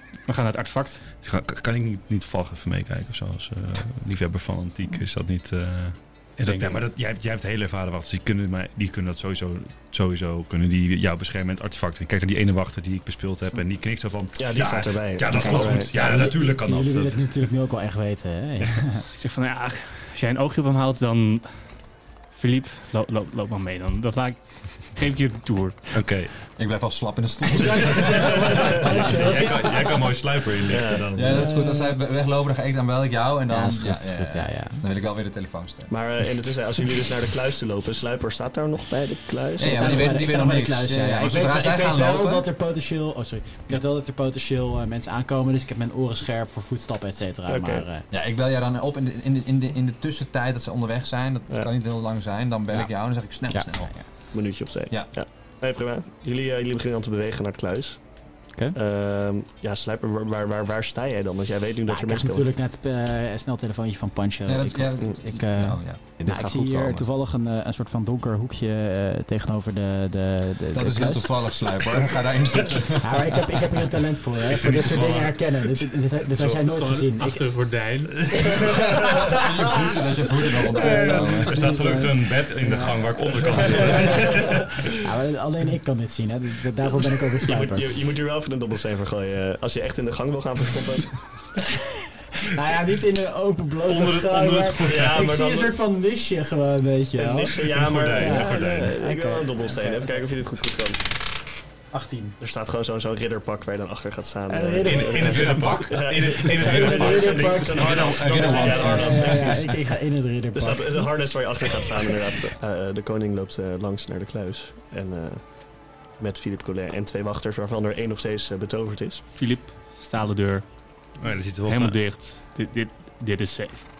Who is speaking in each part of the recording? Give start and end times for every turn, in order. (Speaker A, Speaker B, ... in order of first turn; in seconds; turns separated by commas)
Speaker A: 0.2-1.0, Speaker B: 1.2-17.2, Speaker A: 6.5-6.8, Speaker C: 14.4-16.3, Speaker D: 15.3-19.1, Speaker A: 19.1-21.6, Speaker A: 22.3-26.0, Speaker B: 25.9-26.3, Speaker E: 26.6-28.4, Speaker D: 27.5-30.0, Speaker B: 28.8-31.4, Speaker C: 30.7-31.1, Speaker E: 31.1-35.9, Speaker D: 31.2-31.9, Speaker D: 33.5-34.8, Speaker C: 35.9-40.1, Speaker E: 39.6-42.5, Speaker D: 39.6-48.1, Speaker C: 47.5-47.9, Speaker E: 48.1-53.9, Speaker D: 53.5-54.0, Speaker C: 54.3-58.0, Speaker C: 58.7-62.5, Speaker D: 61.9-71.3, Speaker E: 64.5-67.0, Speaker C: 66.3-66.8, Speaker E: 70.7-73.6, Speaker D: 73.0-77.4, Speaker B: 74.4-75.9, Speaker A: 76.4-78.4, Speaker B: 78.2-79.4, Speaker D: 78.3-79.4, Speaker E: 79.1-81.8, Speaker D: 80.6-87.9, Speaker B: 80.7-84.7, Speaker C: 87.4-91.1, Speaker D: 92.0-100.2, Speaker B: 93.8-95.2, Speaker C: 94.8-95.7, Speaker C: 97.2-101.0, Speaker B: 97.7-98.9, Speaker D: 101.9-102.4, Speaker C: 102.4-109.6, Speaker D: 104.5-111.1, Speaker B: 104.8-109.1, Speaker E: 107.9-109.8, Speaker C: 110.5-115.4, Speaker C: 116.2-119.2, Speaker A: 119.3-120.6, Speaker B: 121.2-122.0, Speaker A: 121.6-123.8